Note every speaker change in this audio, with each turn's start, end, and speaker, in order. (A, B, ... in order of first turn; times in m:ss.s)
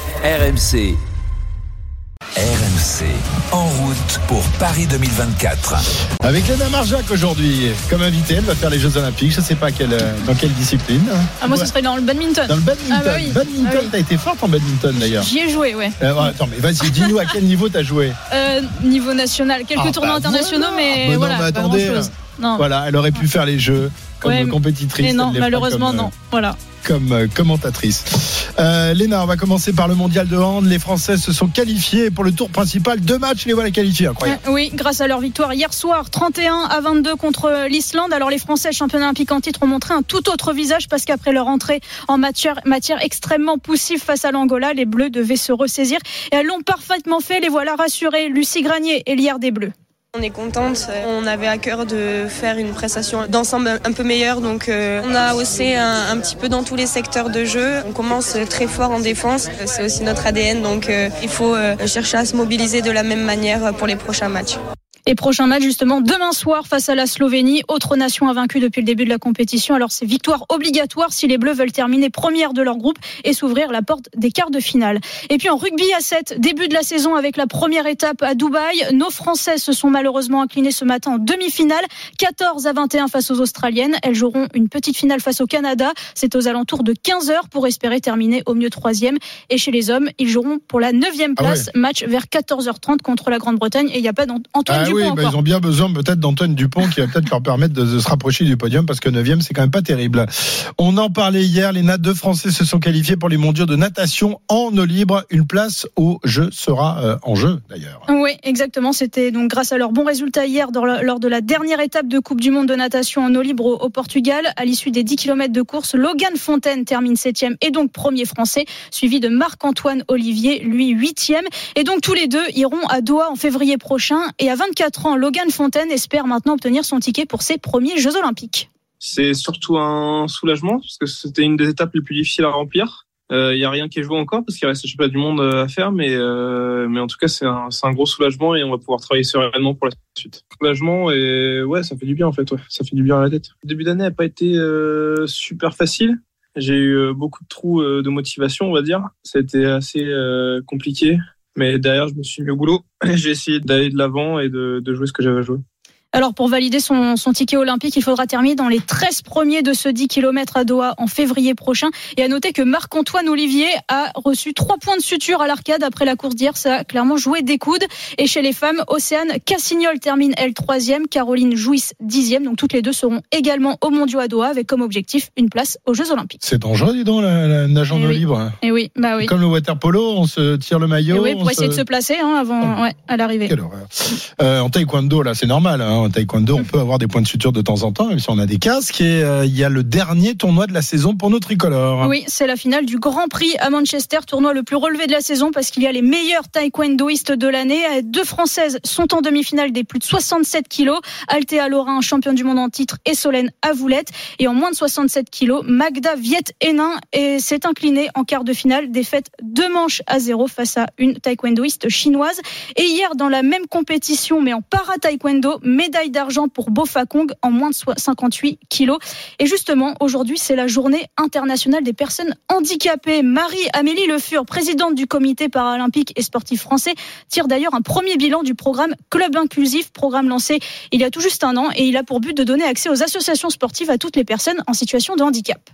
0:00.2-0:01.0 A
0:02.4-0:05.8 A
0:06.2-0:11.7 B
0:11.4-0:13.9 C
0:12.5-0:15.3 B
0:15.0-0:17.1 C
0:16.0-0:18.2 B
0:18.3-0:22.6 C
0:19.8-0:26.1 B
0:24.2-0:26.6 C
0:26.8-0:34.4 B
0:34.2-0:49.7 C
0:50.2-1:04.6 D
1:05.1-1:35.3 C
1:31.4-1:31.7 B
1:34.7-1:48.0 B
1:48.1-2:08.7 C
2:09.0-2:35.6 E
2:36.1-2:56.4 C
2:56.4-2:58.5 B
2:57.9-2:59.3 C
2:59.2-3:01.8 B
3:01.1-3:03.5 C
3:03.4-3:12.2 B
3:12.0-3:55.6 C